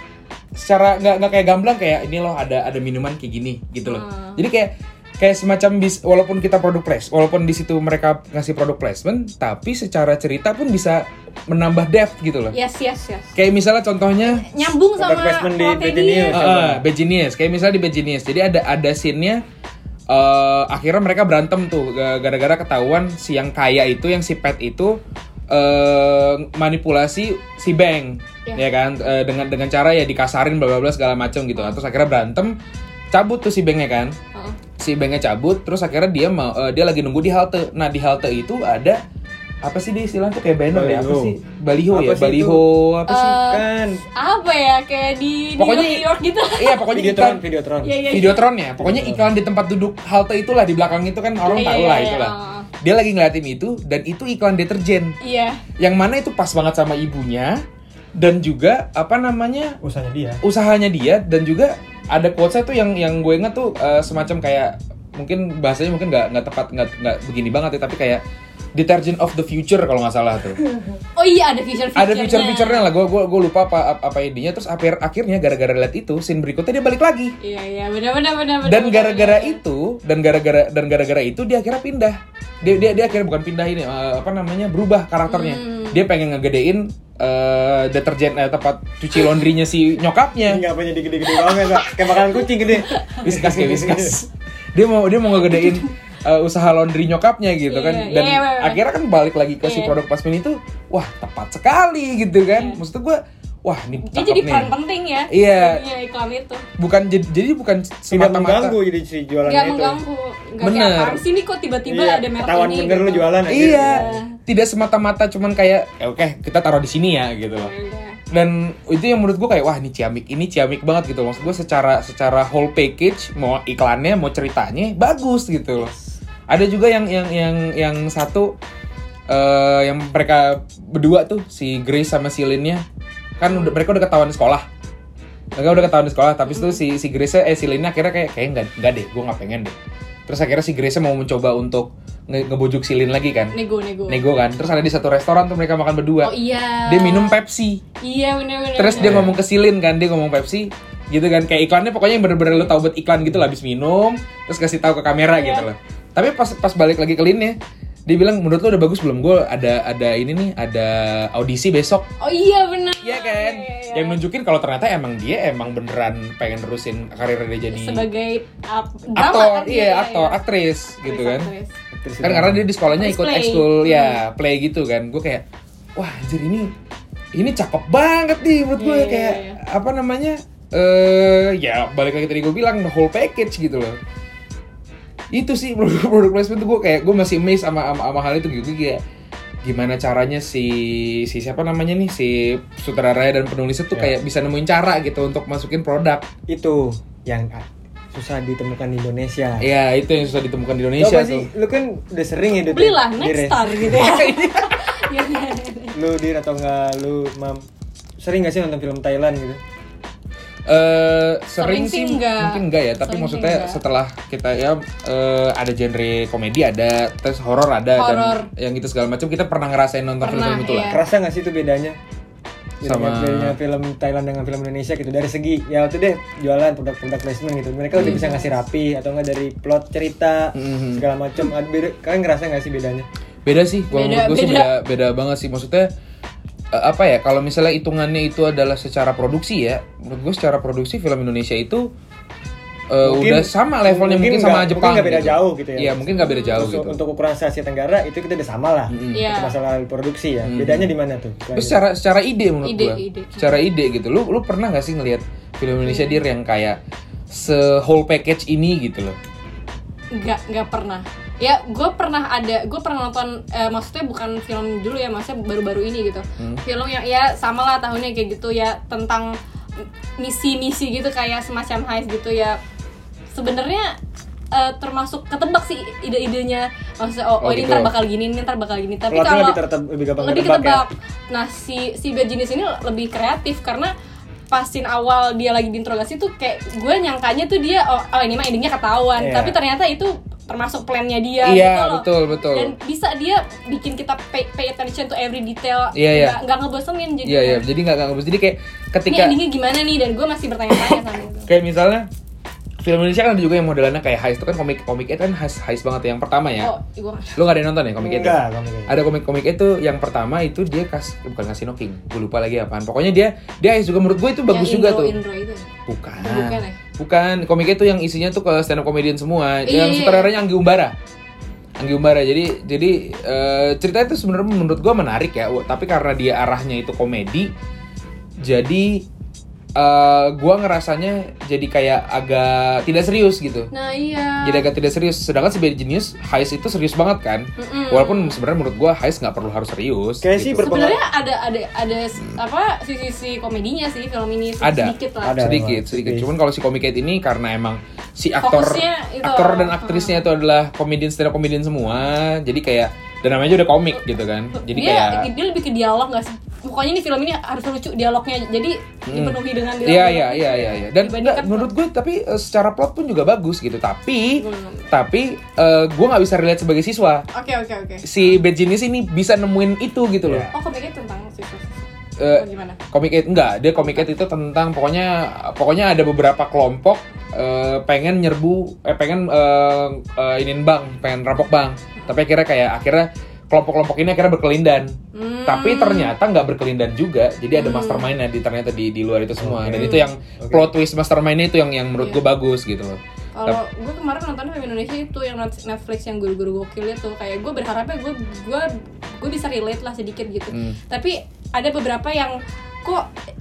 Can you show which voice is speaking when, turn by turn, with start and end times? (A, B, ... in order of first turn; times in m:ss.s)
0:00.6-0:12.6 A
0:03.8-0:04.4 B
0:12.5-0:13.3 B
0:13.4-0:14.7 A
0:14.3-0:16.4 B
0:15.0-0:16.8 C
0:16.3-0:19.4 A
0:20.1-0:25.0 A
0:25.5-0:32.6 A
0:33.1-0:34.2 A
0:34.8-0:39.0 A
0:39.6-0:43.4 A
0:40.7-0:41.4 C
0:41.9-0:42.6 C
0:43.1-0:46.9 B
0:43.4-0:44.0 C
0:45.6-0:47.4 A
0:46.9-0:48.3 C
0:47.8-0:48.5 B
0:48.1-0:55.2 A
0:48.8-0:49.3 C
0:51.5-0:52.7 B
0:55.2-0:55.6 B
0:55.8-0:57.6 A
0:58.2-0:59.8 A
0:59.8-1:00.4 C
1:00.4-1:08.2 A
1:08.8-1:10.6 A
1:11.2-1:12.9 B
1:12.0-1:17.4 A
1:17.4-1:19.6 B
1:18.6-1:30.6 A
1:25.3-1:26.0 B
1:30.5-1:34.2 C
1:31.4-1:33.2 B
1:33.2-1:44.7 A
1:35.3-1:35.9 B
1:37.7-1:38.8 B
1:39.6-1:40.0 B
1:42.5-1:42.8 B
1:44.1-1:46.6 B
1:45.3-1:45.8 A
1:46.8-1:48.8 A
1:48.1-1:50.0 C
1:49.4-1:54.3 B
1:50.6-1:51.2 A
1:51.9-1:54.2 C
1:53.5-1:57.7 A
1:57.5-1:58.2 B
1:58.3-2:05.9 A
2:06.5-2:08.5 A
2:09.3-2:12.8 A
2:13.4-2:14.7 A
2:13.4-2:13.8 B
2:15.6-2:19.7 A
2:16.5-2:16.8 B
2:20.3-2:23.6 A
2:23.5-2:24.2 B
2:24.1-2:26.3 A
2:26.2-2:27.4 B
2:26.9-2:27.8 A
2:28.0-2:29.3 B
2:28.8-2:42.1 A
2:28.9-2:29.3 C
2:35.4-2:35.7 B
2:42.2-2:44.2 B
2:43.0-2:48.1 A
2:47.7-2:50.4 B
2:49.1-2:51.5 A
2:51.0-2:51.7 B
2:51.9-2:52.7 C
2:52.2-2:55.4 A
2:52.9-2:54.2 B
2:56.0-2:56.7 A
2:57.4-3:04.0 A
2:58.8-2:59.6 B
3:05.3-3:09.0 A
3:09.6-3:16.3 A
3:16.5-3:19.7 C
3:19.6-3:21.5 A
3:21.0-3:24.1 C
3:22.6-3:26.0 B
3:23.9-3:24.8 A
3:25.9-3:27.6 C
3:28.2-3:29.6 C
3:30.7-3:41.0 A
3:31.6-3:33.8 B
3:38.0-3:38.5 B
3:40.2-3:41.0 B
3:40.8-3:42.0 C
3:42.8-3:53.1 C
3:42.8-3:43.6 A
3:47.9-3:48.5 B
3:48.0-3:48.2 A
3:50.6-3:51.0 A
3:53.5-3:55.9 A
3:53.9-3:54.7 B
3:56.7-4:01.9 A
4:02.9-4:07.0 A
4:03.0-4:11.8 C
4:06.2-4:06.6 B
4:08.9-4:09.3 A
4:09.1-4:09.6 B
4:10.4-4:10.9 A
4:11.6-4:16.8 A
4:12.6-4:13.6 B
4:15.8-4:16.2 B
4:17.3-4:19.2 A
4:20.1-4:29.4 B
4:30.2-4:32.6 B
4:33.3-4:34.0 B
4:34.5-4:39.6 B
4:37.4-4:37.9 A
4:39.1-4:40.9 C
4:40.2-4:43.9 B
4:44.5-4:57.6 B
4:49.2-4:49.6 C
4:51.4-4:52.7 A
4:56.0-4:56.4 A
4:57.2-4:59.4 A
4:59.1-5:01.5 B
5:00.8-5:02.1 A
5:02.8-5:06.7 A
5:06.6-5:07.4 B
5:07.4-5:15.2 A
5:08.0-5:08.9 C
5:14.5-5:15.7 B
5:15.9-5:21.0 A
5:16.2-5:16.8 B
5:19.7-5:20.3 B
5:21.8-5:27.5 A
5:28.4-5:29.1 A
5:29.8-5:33.7 A
5:33.7-5:34.7 B
5:34.4-5:40.9 A
5:37.6-5:38.4 B
5:40.2-5:41.0 C
5:40.6-5:45.4 B
5:44.6-5:55.3 A
5:45.2-5:46.3 C
5:48.4-5:50.3 B
5:54.6-6:01.7 B
5:59.1-6:07.3 A
6:04.4-6:04.9 B
6:07.3-6:08.0 B
6:08.0-6:10.5 A
6:10.2-6:10.5 C
6:10.5-6:11.6 B
6:12.2-6:33.6 A
6:12.3-6:12.8 B
6:13.8-6:14.1 B
6:25.1-6:26.1 B
6:27.5-6:28.1 B
6:29.4-6:30.7 C
6:29.8-6:30.1 B
6:33.4-6:43.1 B
6:40.5-6:40.8 A